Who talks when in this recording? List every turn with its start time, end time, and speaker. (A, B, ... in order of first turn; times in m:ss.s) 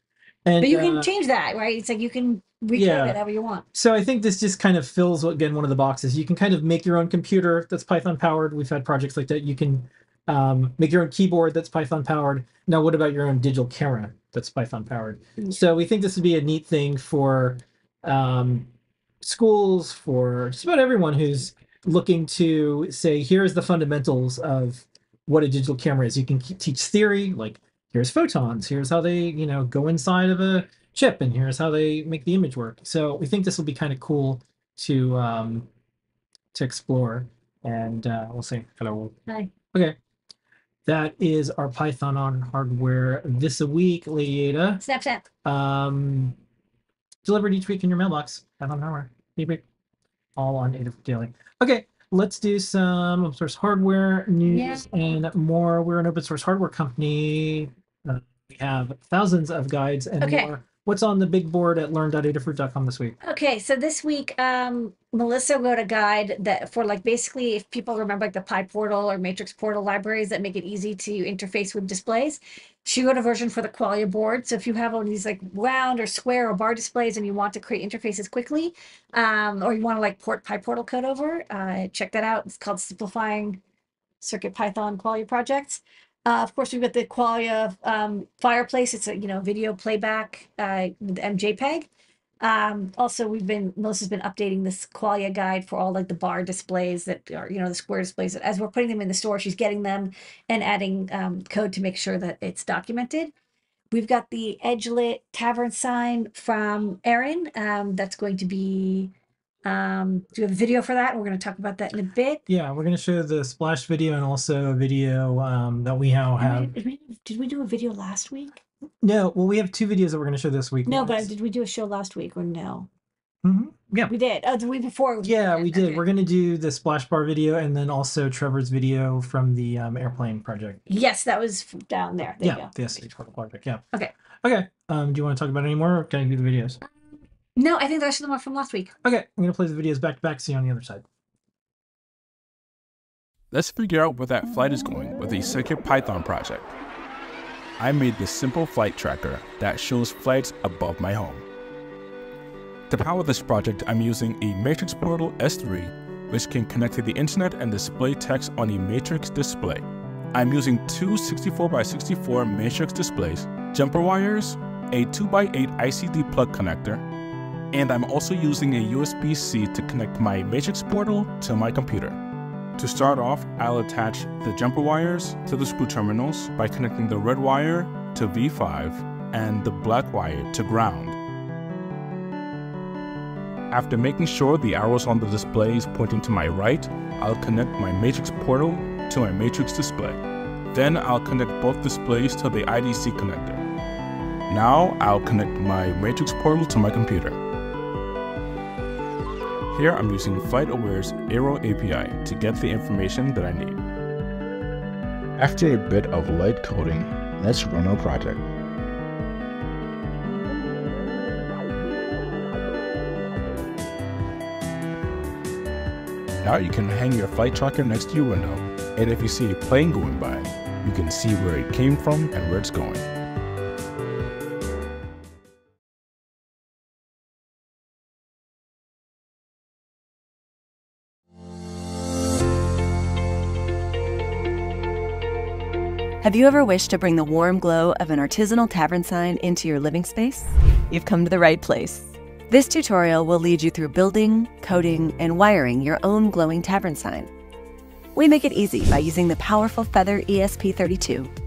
0:00.4-0:01.1 A
0:00.6-0:03.6 B
0:02.7-0:03.2 A
0:03.7-0:35.7 A
0:36.5-0:39.2 A
0:40.9-0:44.8 A
0:44.8-0:45.3 B
0:45.4-0:46.4 A
0:47.2-0:49.6 A
0:50.4-1:03.2 A
0:54.5-0:54.8 B
1:00.2-1:00.5 B
1:03.2-1:23.6 B
1:24.2-1:31.9 B
1:32.4-1:43.3 B
1:43.9-1:49.1 B
1:49.6-1:52.4 B
1:52.5-1:56.7 A
1:56.4-1:58.6 B
1:59.0-2:01.3 A
2:00.9-2:02.9 B
2:03.4-2:04.1 A
2:04.1-2:06.0 B
2:05.2-2:10.8 A
2:10.9-2:12.7 B
2:12.4-2:13.8 A
2:14.4-2:16.8 A
2:17.6-2:18.9 B
2:19.0-2:21.0 A
2:23.5-2:26.7 C
2:27.8-2:31.4 C
2:32.9-2:47.0 C
2:47.7-2:52.2 C
2:52.8-3:01.2 C
3:03.7-3:10.2 C
3:10.7-3:13.6 C
3:14.5-3:17.4 C
3:19.7-3:23.8 C
3:25.4-3:28.5 D
3:36.4-3:43.1 C
3:56.2-4:07.3 E
4:08.2-4:11.3 E